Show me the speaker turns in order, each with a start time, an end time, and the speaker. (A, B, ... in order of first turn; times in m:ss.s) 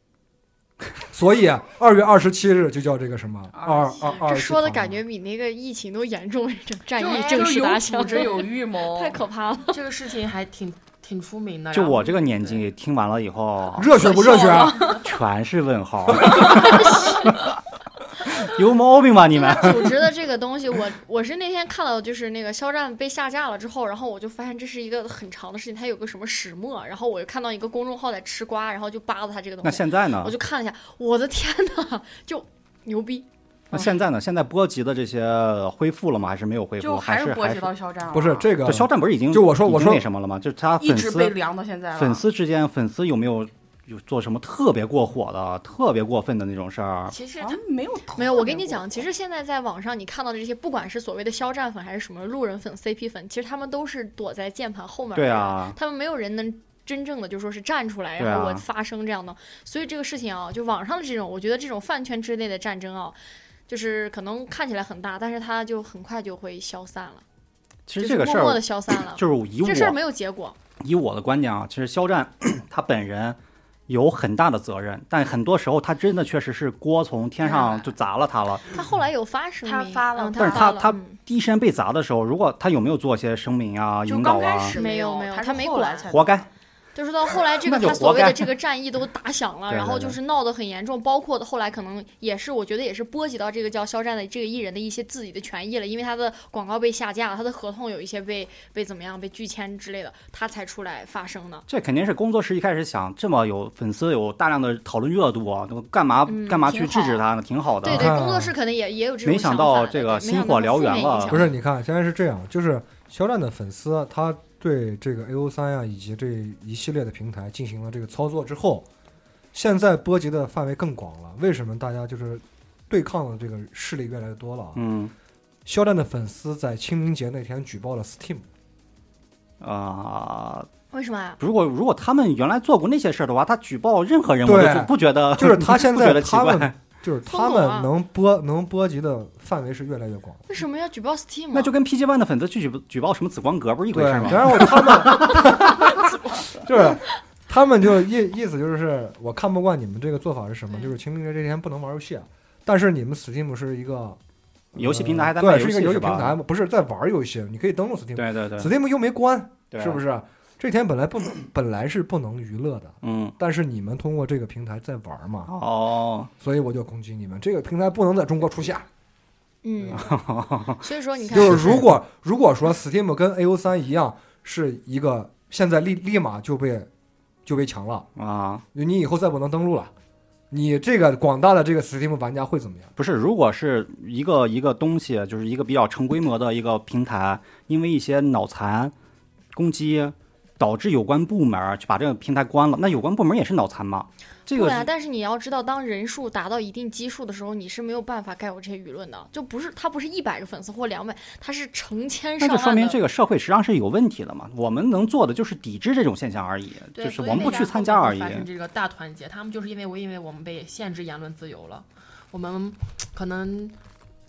0:01.1-0:05.0 A
0:03.5-0:04.2 B
0:04.1-0:09.8 C
0:07.0-0:09.2 B
0:07.0-0:08.4 D
0:09.7-0:12.6 D
0:11.7-0:13.9 E
0:13.7-0:14.8 A
0:13.9-0:15.0 C
0:15.0-0:17.4 E
0:16.4-0:17.2 C
0:18.3-0:20.0 E
0:19.3-0:33.9 C
0:29.6-0:30.3 E
0:33.7-0:37.7 E
0:36.8-0:38.5 B
0:38.1-0:40.0 A
0:38.6-0:41.4 E
0:40.8-0:42.2 B
0:42.0-0:47.1 E
0:47.1-0:47.6 D
0:47.4-0:49.1 B
0:48.2-1:07.2 C
0:55.1-0:55.8 E
0:58.2-0:58.6 E
1:07.9-1:10.0 E
1:08.0-1:10.6 C
1:10.8-1:18.6 E
1:17.4-1:17.9 C
1:18.7-1:21.2 C
1:19.6-1:20.7 B
1:20.4-1:24.8 E
1:24.0-1:26.4 B
1:24.7-1:26.1 C
1:26.1-1:26.5 E
1:27.0-1:41.6 C
1:27.6-1:28.5 E
1:29.7-1:30.2 E
1:41.7-1:48.2 E
1:46.2-1:46.7 C
1:46.6-1:47.2 B
1:47.8-1:51.5 C
1:47.8-1:48.5 A
1:49.2-1:51.5 E
1:51.3-1:58.9 A
1:59.5-2:04.8 A
2:04.8-2:05.1 E
2:05.6-2:08.5 A
2:09.6-2:10.7 E
2:10.9-2:11.4 C
2:11.4-2:16.7 E
2:14.4-2:20.4 A
2:17.2-2:17.9 C
2:20.5-2:21.7 C
2:21.5-2:25.4 E
2:23.9-2:34.2 A
2:34.7-2:45.5 A
2:34.8-2:36.4 E
2:38.2-2:38.7 E
2:39.7-2:40.0 E
2:43.0-2:43.4 E
2:45.5-2:46.3 E
2:46.4-2:48.9 A
2:49.6-2:50.1 C
2:49.9-2:50.8 E
2:50.8-2:51.9 C
2:51.3-2:56.9 A
2:51.3-2:51.8 E
2:57.4-2:58.1 A
2:58.2-2:58.6 E
2:58.7-2:59.9 A
3:00.5-3:02.9 A
3:03.0-3:08.9 E
3:09.5-3:14.9 E
3:14.5-3:23.0 C
3:22.4-3:28.5 E
3:26.9-3:33.8 D